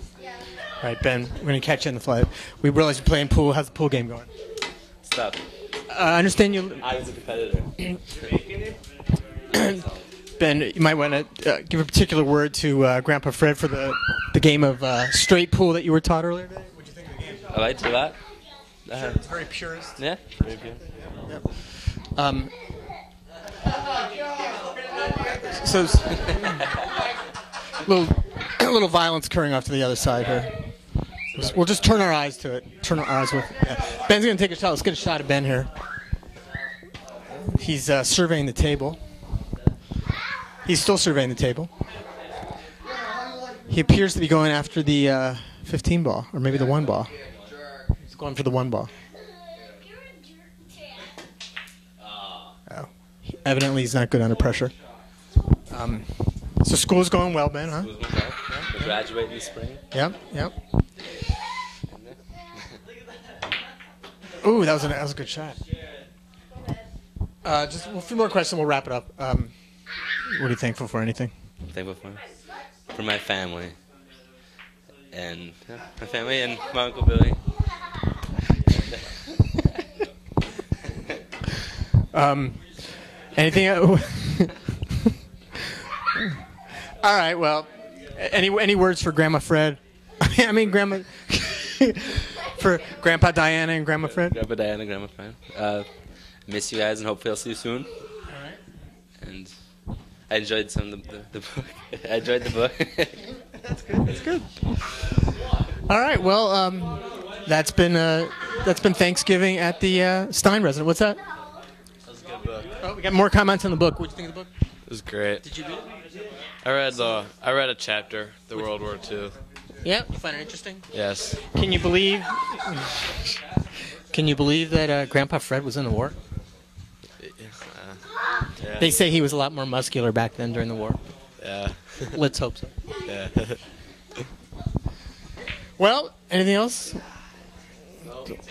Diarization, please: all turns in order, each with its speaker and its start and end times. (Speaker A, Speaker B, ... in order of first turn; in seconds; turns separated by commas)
Speaker A: 0.8-4.3, Speaker B: 5.0-5.4, Speaker A: 5.9-6.8, Speaker B: 6.8-7.7, Speaker A: 9.5-9.8, Speaker B: 9.6-9.9, Speaker A: 10.4-17.5, Speaker B: 17.5-18.2, Speaker B: 18.9-19.2, Speaker A: 19.0-20.5, Speaker B: 20.0-20.7, Speaker A: 22.1-22.5, Speaker A: 25.5-26.6, Speaker A: 27.8-30.5, Speaker A: 31.4-35.7, Speaker A: 37.5-39.0, Speaker A: 40.6-41.7, Speaker A: 43.7-47.1, Speaker A: 48.1-48.9, Speaker A: 53.4-54.7, Speaker A: 55.7-56.1, Speaker A: 56.6-57.9, Speaker B: 57.8-59.8, Speaker A: 59.9-60.5, Speaker B: 61.9-62.2, Speaker A: 64.4-65.6, Speaker A: 67.4-69.5, Speaker A: 70.3-71.3, Speaker B: 71.7-72.2, Speaker B: 72.9-73.8, Speaker B: 75.1-77.4, Speaker A: 82.1-85.1, Speaker A: 86.2-94.4, Speaker B: 94.2-95.9, Speaker B: 96.5-97.9, Speaker A: 98.3-98.6, Speaker B: 99.2-99.5, Speaker B: 100.3-103.2, Speaker A: 104.0-104.4, Speaker A: 105.9-111.2, Speaker C: 112.1-112.7, Speaker A: 112.8-114.5, Speaker C: 114.9-115.4, Speaker A: 115.5-115.8, Speaker C: 116.6-119.3, Speaker A: 119.8-120.8, Speaker C: 120.9-121.4, Speaker A: 121.5-123.4, Speaker A: 124.1-126.2, Speaker A: 128.8-131.0, Speaker C: 131.5-131.8, Speaker A: 132.1-132.7, Speaker A: 135.8-137.0